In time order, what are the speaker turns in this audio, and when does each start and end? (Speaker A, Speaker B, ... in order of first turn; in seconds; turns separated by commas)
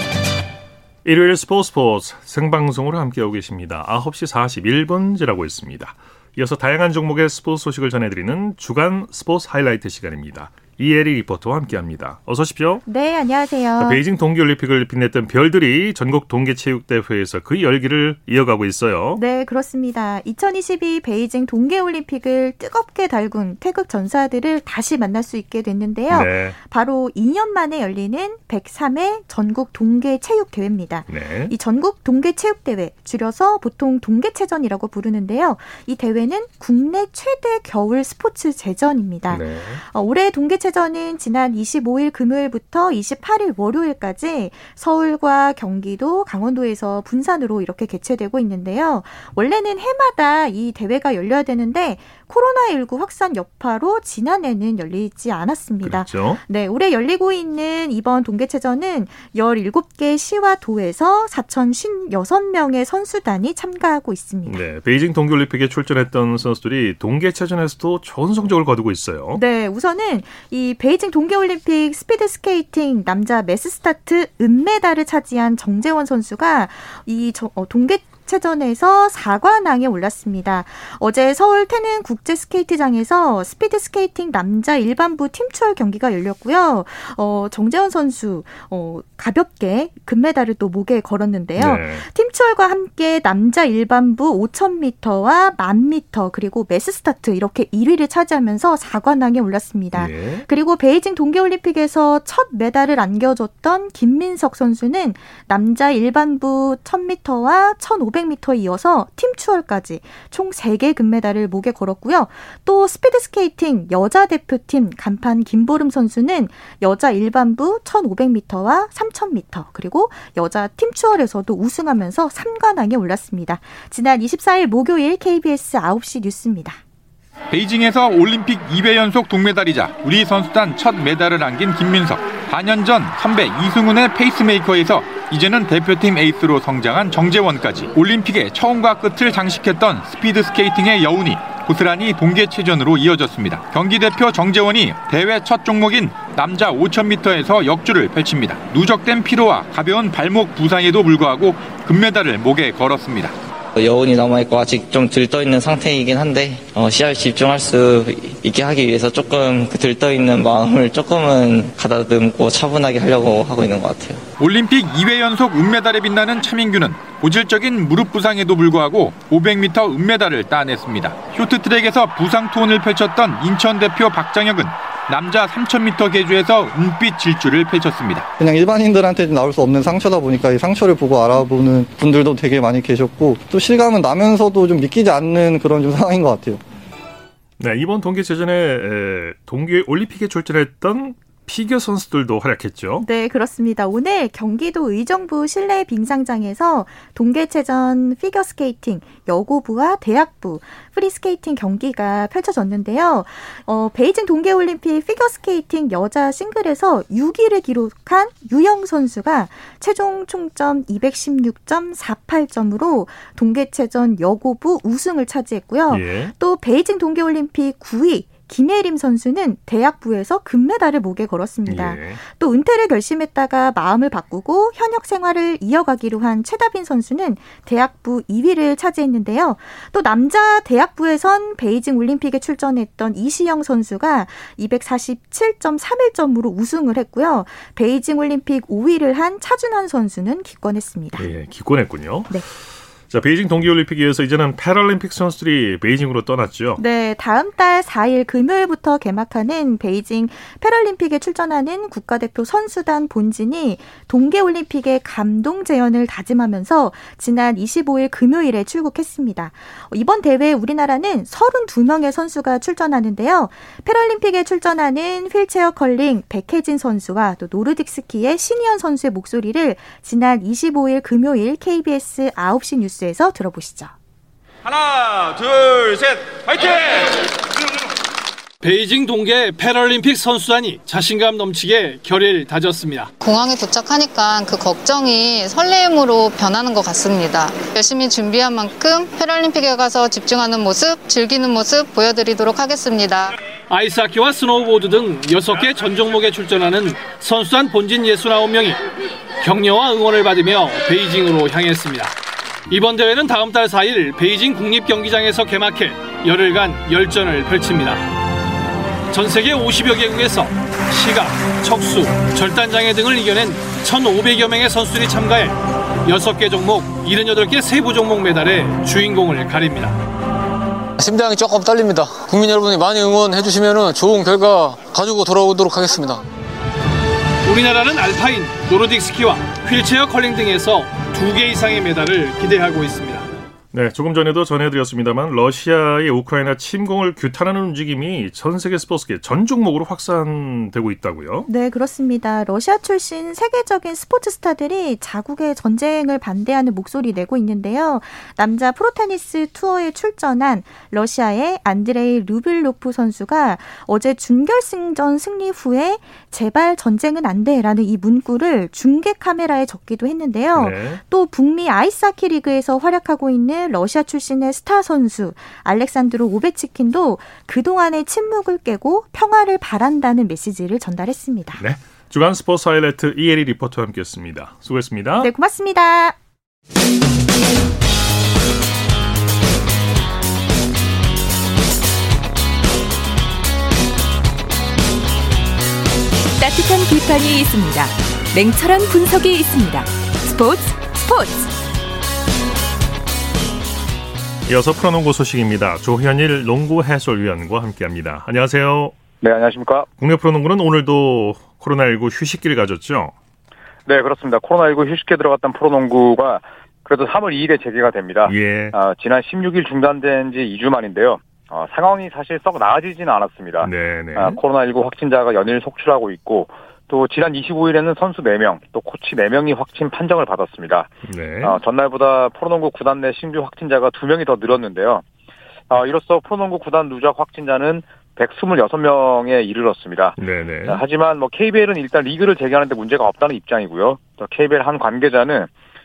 Speaker A: 1.1-12.8, Speaker B: 12.9-14.0, Speaker A: 13.8-19.2, Speaker B: 19.1-64.6, Speaker A: 26.1-26.6, Speaker A: 31.1-31.5, Speaker A: 39.3-39.8, Speaker A: 55.8-56.4, Speaker A: 64.5-69.4, Speaker B: 69.3-126.8, Speaker A: 91.6-92.1, Speaker A: 100.0-100.5, Speaker C: 127.5-153.3, Speaker D: 153.8-164.2, Speaker C: 164.4-178.3, Speaker E: 178.4-186.6, Speaker A: 187.6-193.1, Speaker B: 193.0-241.3, Speaker A: 215.9-216.3, Speaker A: 221.7-222.2, Speaker A: 241.2-242.4, Speaker A: 243.1-246.8, Speaker B: 246.8-273.9, Speaker F: 275.6-276.8, Speaker G: 278.6-283.1, Speaker H: 283.2-293.3, Speaker G: 293.7-298.8, Speaker G: 299.4-302.1, Speaker G: 302.7-308.0, Speaker G: 309.1-320.0, Speaker F: 321.0-326.2, Speaker G: 327.4-333.3, Speaker A: 333.7-341.5, Speaker B: 341.5-371.6, Speaker A: 360.5-361.0, Speaker A: 371.6-375.3, Speaker B: 375.2-376.2, Speaker I: 386.4-391.5, Speaker A: 394.5-398.9, Speaker J: 399.2-399.9, Speaker A: 400.0-403.1, Speaker J: 403.9-420.9, Speaker A: 408.2-408.8, Speaker A: 413.6-414.4, Speaker A: 421.1-421.6, Speaker J: 421.4-425.0, Speaker J: 425.7-430.2, Speaker A: 430.2-430.8, Speaker J: 430.7-435.5